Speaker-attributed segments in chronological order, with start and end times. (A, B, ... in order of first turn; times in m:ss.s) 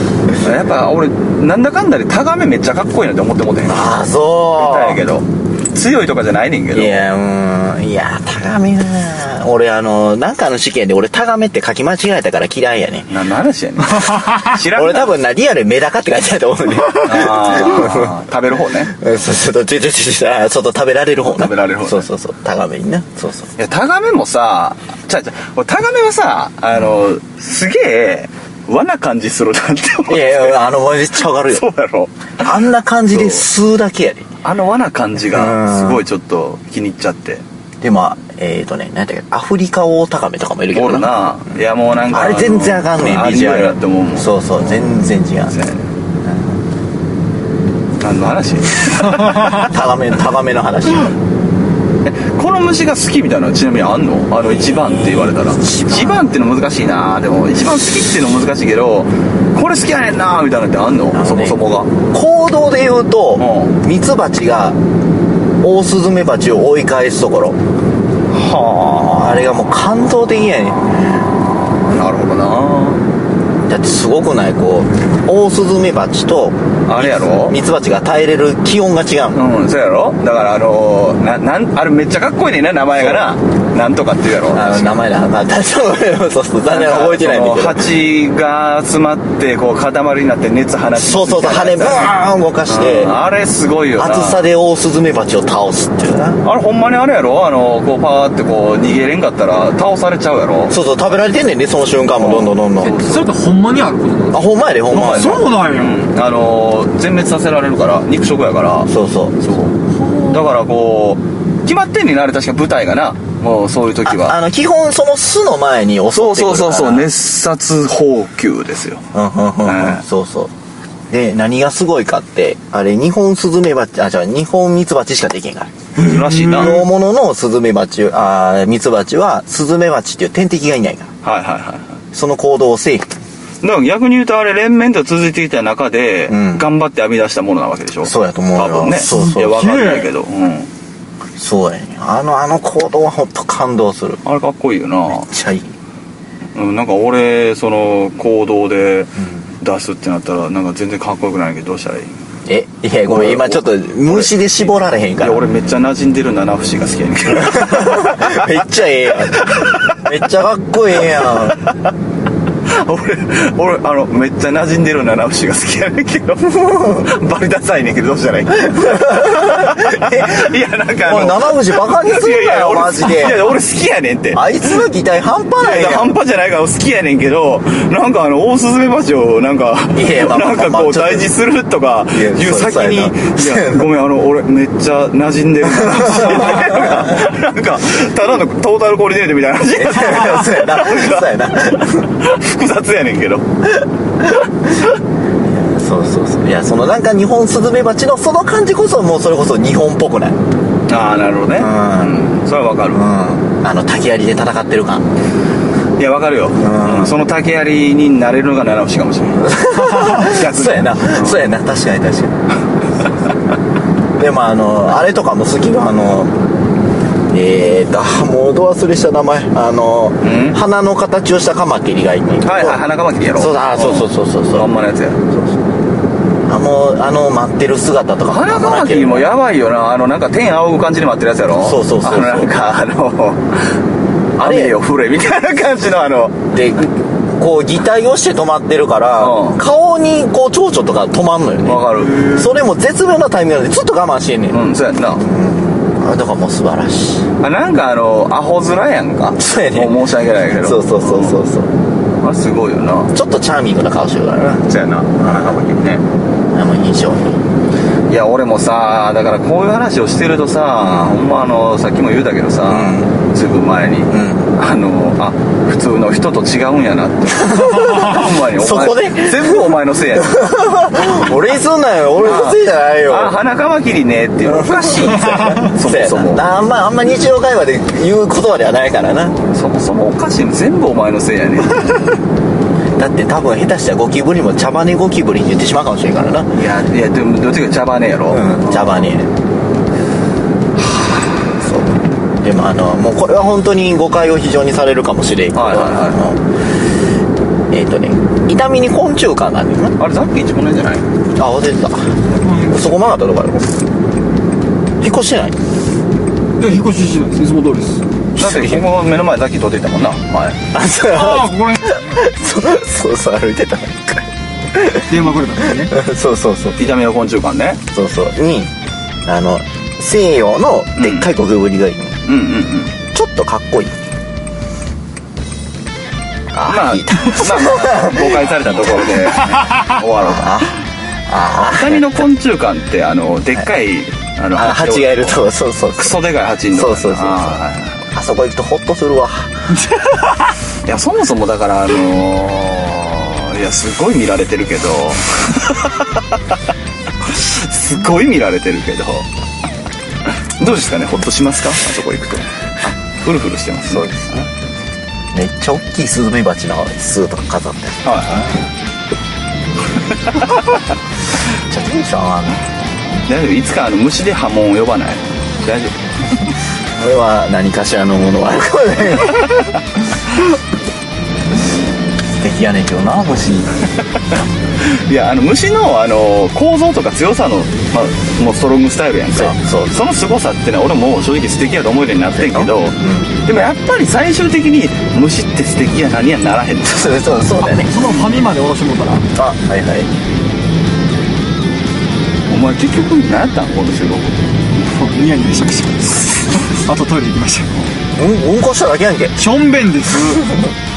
0:00.4-0:04.0 A
0:03.6-0:05.0 B
0:04.5-0:07.1 A
0:06.7-0:13.1 B
0:13.1-0:15.2 A
0:14.5-0:18.2 B
0:17.0-0:18.9 A
0:18.9-0:23.5 B
0:21.2-0:22.1 A
0:23.6-0:30.6 A
0:30.0-0:31.6 B
0:31.3-0:33.4 A
0:32.4-0:34.3 B
0:34.4-0:37.4 A
0:35.3-0:36.0 B
0:37.8-0:41.2 B
0:40.7-0:45.9 A
0:42.1-0:45.5 B
0:46.2-0:46.5 B
0:48.0-0:49.7 A
0:49.4-0:51.1 B
0:52.0-1:01.9 A
0:55.6-0:56.1 B
1:01.1-1:01.6 B
1:02.1-1:04.8 B
1:03.4-1:03.8 A
1:05.6-1:07.6 B
1:08.3-1:09.6 A
1:09.0-1:10.9 B
1:11.5-1:13.0 A
1:13.7-1:19.4 B
1:16.9-1:17.6 A
1:19.3-1:25.0 A
1:24.5-1:27.8 B
1:26.6-1:32.1 A
1:31.0-1:33.2 B
1:32.7-1:34.5 A
1:34.0-1:36.4 B
1:36.4-1:40.7 A
1:40.7-1:43.0 B
1:42.1-1:43.3 A
1:42.8-1:46.0 C
1:44.3-1:45.5 B
1:44.9-1:54.4 A
1:48.9-1:49.4 B
1:50.0-1:50.4 C
1:54.0-1:57.1 B
1:56.1-1:59.0 A
1:59.1-2:00.5 B
1:59.6-2:00.0 A
2:01.1-2:05.7 B
2:06.0-2:06.9 A
2:06.3-2:11.1 B
2:11.2-2:12.0 A
2:12.1-2:13.1 B
2:13.6-2:20.7 A
2:16.3-2:16.7 B
2:18.0-2:19.8 B
2:19.0-2:20.1 C
2:21.4-2:24.2 B
2:24.2-2:25.3 A
2:25.2-2:25.7 B
2:26.5-2:32.1 A
2:32.5-2:35.4 B
2:33.1-2:38.5 A
2:37.4-2:41.6 B
2:39.4-2:40.0 A
2:41.0-2:41.8 A
2:42.6-2:54.8 A
2:46.6-2:47.0 B
2:48.8-2:50.4 B
2:51.0-2:53.5 B
2:54.3-2:56.2 B
2:55.6-3:13.4 A
2:59.9-3:01.3 B
3:02.1-3:03.8 B
3:05.8-3:07.2 B
3:09.7-3:12.1 B
3:14.2-3:14.9 B
3:15.4-3:20.4 B
3:20.9-3:23.0 A
3:21.6-3:22.2 B
3:22.9-3:25.0 B
3:26.0-3:31.5 A
3:26.6-3:27.2 B
3:29.4-3:32.3 B
3:34.2-3:36.3 B
3:37.3-3:42.8 B
3:40.2-3:40.6 A
3:42.4-3:45.2 A
3:43.3-3:44.7 B
3:45.3-3:45.6 B
3:46.5-3:49.3 B
3:48.3-3:53.8 A
3:51.6-3:52.6 B
3:54.4-3:56.4 A
3:54.4-3:54.8 B
3:56.5-4:07.3 B
3:59.2-3:59.6 A
4:01.6-4:02.5 A
4:04.5-4:05.2 A
4:07.4-4:11.4 A
4:09.4-4:10.0 B
4:10.5-4:11.7 B
4:12.2-4:13.1 A
4:13.1-4:15.7 B
4:14.7-4:16.0 A
4:16.5-4:17.4 B
4:18.1-4:30.7 A
4:22.7-4:23.1 B
4:24.1-4:24.5 B
4:27.4-4:33.4 B
4:32.2-4:36.5 A
4:34.4-4:39.4 B
4:39.4-4:42.1 A
4:43.0-4:46.6 B
4:46.5-4:49.1 A
4:48.3-4:49.3 B
4:51.5-4:56.4 B
4:55.5-4:56.2 A
4:57.7-5:00.0 B
5:00.0-5:01.1 A
5:01.4-5:03.7 B
5:02.4-5:02.9 C
5:05.0-5:05.6 B
5:06.6-5:08.0 C
5:08.4-5:08.9 B
5:08.4-5:10.6 A
5:10.7-5:15.3 B
5:11.1-5:12.1 C
5:15.1-5:15.9 C
5:15.8-5:16.8 B
5:16.8-5:17.8 A
5:17.9-5:18.7 B
5:19.2-5:22.2 B
5:21.0-5:21.3 A
5:22.2-5:22.9 A
5:23.1-5:23.9 B
5:26.5-5:29.5 B
5:26.6-5:30.7 A
5:30.2-5:32.1 B
5:31.7-5:38.0 A
5:34.5-5:36.2 B
5:36.7-5:39.7 B
5:40.8-5:46.4 A
5:47.2-5:49.3 A
5:50.2-5:54.3 A
5:53.9-5:54.5 B
5:55.3-5:58.6 B
5:58.0-5:58.5 A
6:01.6-6:02.6 B
6:03.2-6:06.0 A
6:07.0-6:09.7 B
6:12.4-6:13.8 B
6:14.3-6:27.2 A
6:19.3-6:20.0 B
6:22.4-6:23.4 B
6:26.9-6:27.9 B
6:27.6-6:29.2 C
6:29.4-6:30.1 B
6:32.5-6:34.4 A
6:34.8-6:37.8 C
6:38.2-6:39.4 B
6:39.4-6:40.6 C